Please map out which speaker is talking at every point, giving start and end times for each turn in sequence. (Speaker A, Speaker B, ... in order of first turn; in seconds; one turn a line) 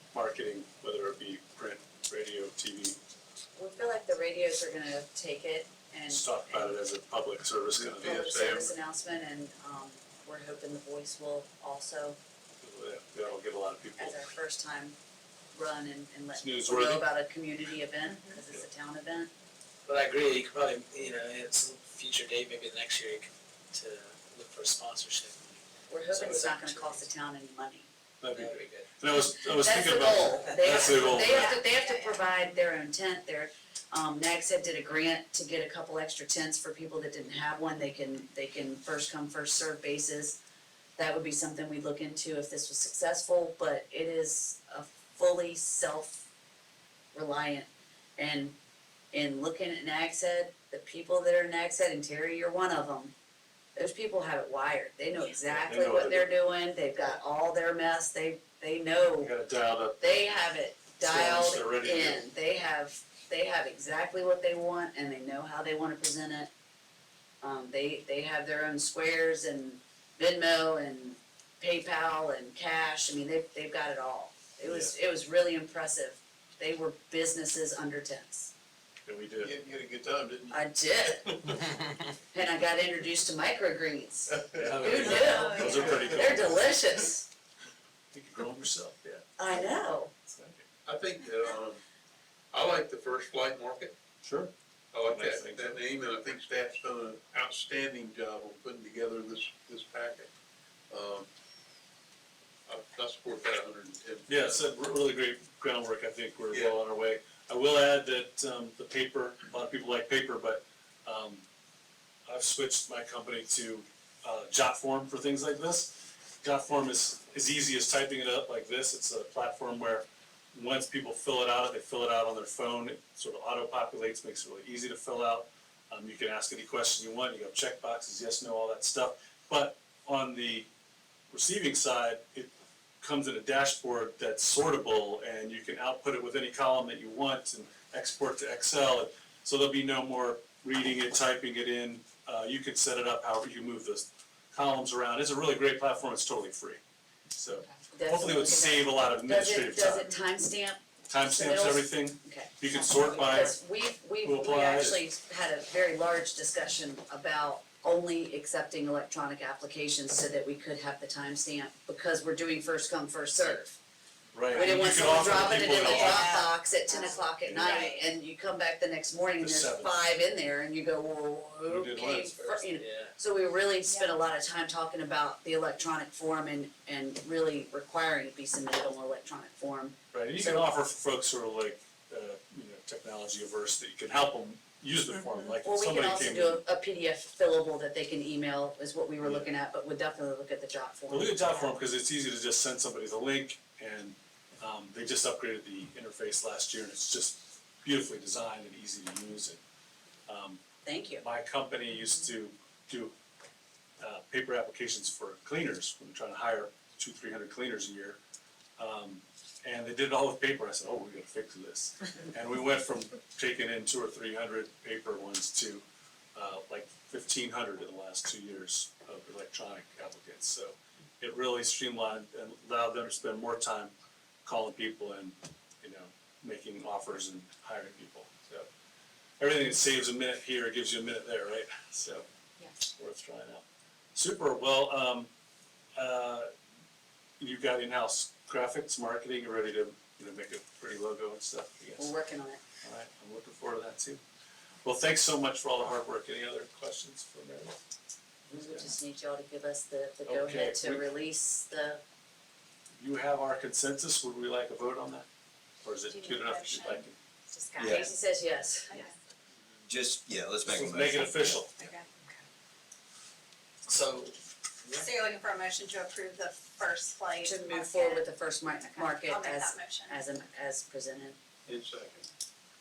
Speaker A: 0.1-3.0
Speaker B: 3.5-6.8
Speaker A: 6.1-8.4
Speaker C: 7.7-8.7
Speaker B: 8.0-12.2
Speaker A: 12.6-14.3
Speaker B: 14.0-14.9
Speaker B: 15.5-19.3
Speaker A: 16.3-17.1
Speaker D: 19.9-25.5
Speaker B: 25.9-27.9
Speaker D: 26.1-27.1
Speaker A: 28.2-31.6
Speaker D: 28.3-28.9
Speaker B: 29.5-40.4
Speaker D: 30.3-31.4
Speaker E: 31.3-32.5
Speaker B: 41.0-46.2
Speaker B: 47.1-48.5
Speaker B: 49.1-53.1
Speaker B: 53.8-59.4
Speaker A: 55.5-56.3
Speaker A: 59.2-60.3
Speaker B: 60.0-66.5
Speaker A: 61.0-62.2
Speaker B: 67.4-78.5
Speaker A: 74.7-74.9
Speaker A: 79.0-79.5
Speaker C: 79.4-81.7
Speaker B: 80.5-81.4
Speaker B: 82.3-87.2
Speaker C: 84.5-86.2
Speaker A: 84.5-86.7
Speaker E: 85.0-86.0
Speaker A: 88.1-89.2
Speaker B: 89.4-90.1
Speaker A: 90.3-90.6
Speaker C: 90.8-91.8
Speaker C: 92.5-93.9
Speaker A: 94.2-94.5
Speaker C: 94.9-100.3
Speaker A: 95.0-95.8
Speaker C: 100.9-101.3
Speaker C: 102.7-104.6
Speaker A: 104.3-111.4
Speaker C: 106.5-106.8
Speaker A: 112.3-130.7
Speaker A: 131.3-146.8
Speaker A: 147.3-150.1
Speaker B: 147.9-163.7
Speaker A: 151.1-153.6
Speaker A: 154.2-155.0
Speaker A: 164.3-166.3
Speaker E: 164.5-168.1
Speaker B: 164.5-180.6
Speaker A: 167.4-167.7
Speaker A: 169.4-169.9
Speaker A: 171.7-172.6
Speaker D: 172.8-173.1
Speaker E: 173.8-174.2
Speaker A: 180.1-186.6
Speaker B: 185.6-191.5
Speaker A: 189.2-189.5
Speaker A: 191.1-199.6
Speaker A: 200.3-200.6
Speaker B: 200.8-201.2
Speaker A: 201.2-203.1
Speaker A: 204.0-208.2
Speaker A: 208.8-215.8
Speaker A: 216.3-223.9
Speaker A: 224.4-228.7
Speaker A: 229.4-232.2
Speaker A: 232.9-233.6
Speaker A: 234.1-235.3
Speaker A: 236.0-236.5
Speaker A: 237.4-242.1
Speaker B: 242.0-242.6
Speaker A: 242.8-244.2
Speaker A: 244.8-247.8
Speaker B: 248.5-252.0
Speaker A: 248.7-248.9
Speaker A: 250.2-251.1
Speaker A: 253.0-255.3
Speaker A: 255.8-257.2
Speaker E: 256.1-258.1
Speaker F: 257.8-258.1
Speaker B: 257.8-259.0
Speaker F: 259.9-261.6
Speaker A: 260.7-261.8
Speaker E: 261.8-262.3
Speaker D: 263.9-264.3
Speaker E: 264.9-270.2
Speaker B: 267.4-271.4
Speaker C: 271.6-272.2